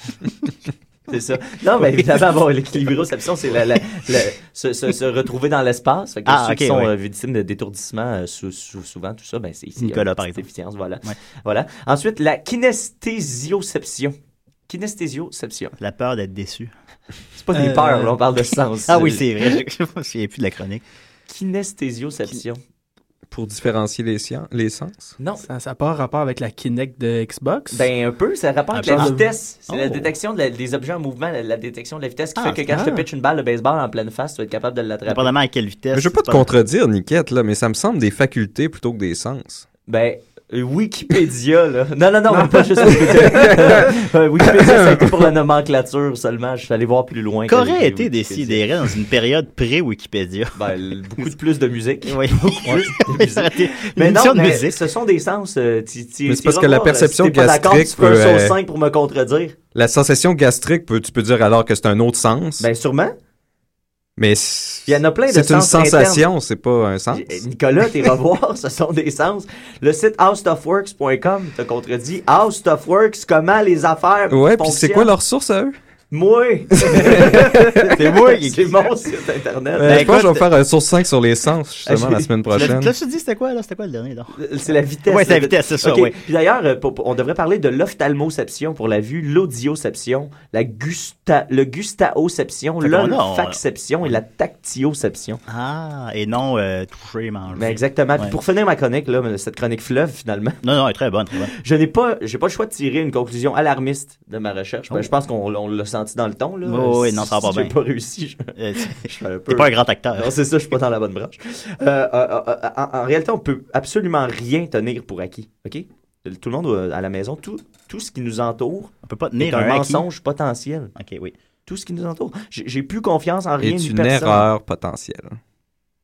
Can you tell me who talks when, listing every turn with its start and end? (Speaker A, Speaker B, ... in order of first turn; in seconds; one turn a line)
Speaker A: 1.1-14.1
Speaker B: 6.3-6.9
Speaker B: 9.8-10.5
Speaker A: 14.7-15.8
Speaker B: 15.8-16.7
Speaker A: 17.4-19.6
Speaker C: 17.5-18.2
Speaker B: 18.9-20.8
Speaker A: 21.3-22.6
Speaker D: 23.3-25.1
Speaker A: 25.2-25.5
Speaker C: 25.4-27.9
Speaker A: 27.7-35.3
Speaker B: 28.7-29.1
Speaker C: 28.9-29.3
Speaker B: 29.7-30.1
Speaker B: 32.4-32.7
Speaker C: 32.7-33.0
Speaker B: 35.1-36.5
Speaker D: 35.9-39.7
Speaker A: 39.9-48.6
Speaker D: 43.4-43.9
Speaker B: 47.5-50.6
Speaker A: 50.6-59.6
Speaker B: 52.0-54.8
Speaker D: 56.3-58.5
Speaker D: 59.8-62.7
Speaker A: 62.6-63.1
Speaker D: 64.2-67.4
Speaker A: 64.9-66.3
Speaker A: 67.1-75.1
Speaker D: 74.3-75.8
Speaker A: 76.1-80.2
Speaker D: 76.8-77.9
Speaker B: 77.3-78.8
Speaker D: 79.8-82.9
Speaker B: 79.8-80.5
Speaker A: 81.9-82.8
Speaker B: 82.5-84.4
Speaker A: 84.4-95.4
Speaker B: 85.1-86.2
Speaker B: 92.8-94.2
Speaker B: 95.5-98.4
Speaker A: 97.5-100.6
Speaker B: 100.6-101.5
Speaker A: 101.5-120.9
Speaker B: 106.6-107.8
Speaker B: 108.6-110.3
Speaker B: 119.0-120.1
Speaker B: 121.0-121.3
Speaker A: 121.7-124.5
Speaker D: 123.6-125.4